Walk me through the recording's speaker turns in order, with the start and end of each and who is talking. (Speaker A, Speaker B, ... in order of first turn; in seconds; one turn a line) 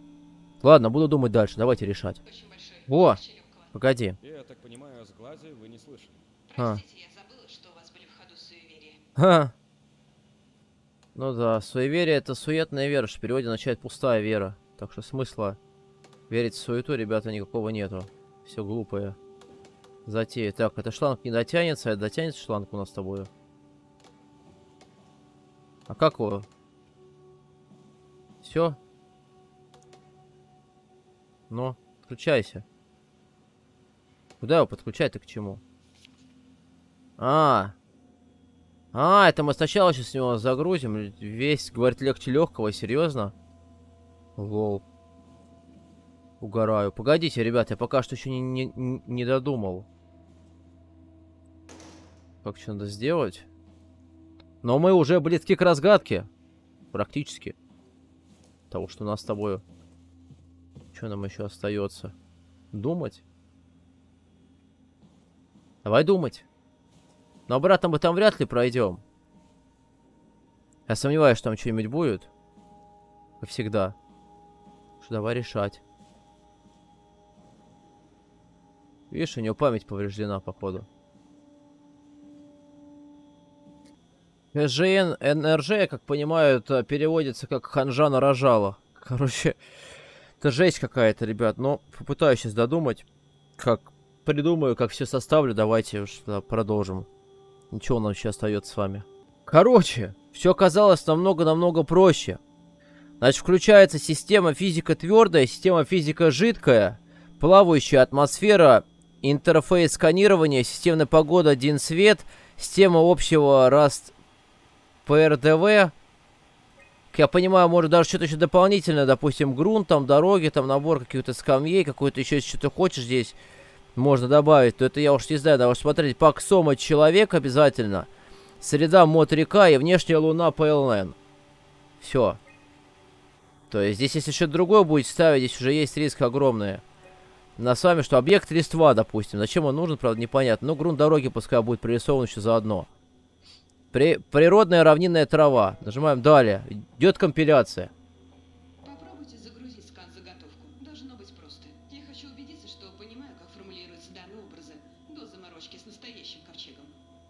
Speaker A: 0.6-2.2
Speaker B: 2.2-3.7
Speaker A: 2.9-3.2
Speaker A: 3.7-4.2
Speaker C: 4.2-6.2
Speaker B: 6.5-9.0
Speaker A: 9.2-9.5
Speaker A: 11.1-15.6
Speaker A: 16.3-19.2
Speaker A: 20.1-23.3
Speaker A: 25.9-26.5
Speaker A: 28.4-28.8
Speaker A: 31.5-32.6
Speaker A: 34.4-35.6
Speaker A: 37.2-37.7
Speaker A: 38.9-43.3
Speaker A: 44.4-44.8
Speaker A: 46.4-49.9
Speaker A: 52.4-53.5
Speaker A: 54.6-56.3
Speaker A: 56.9-57.5
Speaker A: 58.7-59.6
Speaker A: 60.9-62.1
Speaker A: 62.7-63.2
Speaker A: 65.8-66.4
Speaker A: 67.5-69.0
Speaker A: 70.9-72.3
Speaker A: 73.4-74.0
Speaker A: 75.0-75.8
Speaker A: 79.1-80.9
Speaker A: 84.5-89.6
Speaker A: 90.4-93.0
Speaker A: 93.6-97.1
Speaker A: 97.7-102.4
Speaker A: 103.2-114.1
Speaker A: 115.0-115.9
Speaker A: 117.1-123.4
Speaker A: 123.9-128.1
Speaker A: 128.6-131.2
Speaker A: 132.0-132.4
Speaker A: 133.7-136.8
Speaker A: 137.6-142.9
Speaker A: 143.9-147.9
Speaker B: 148.8-157.0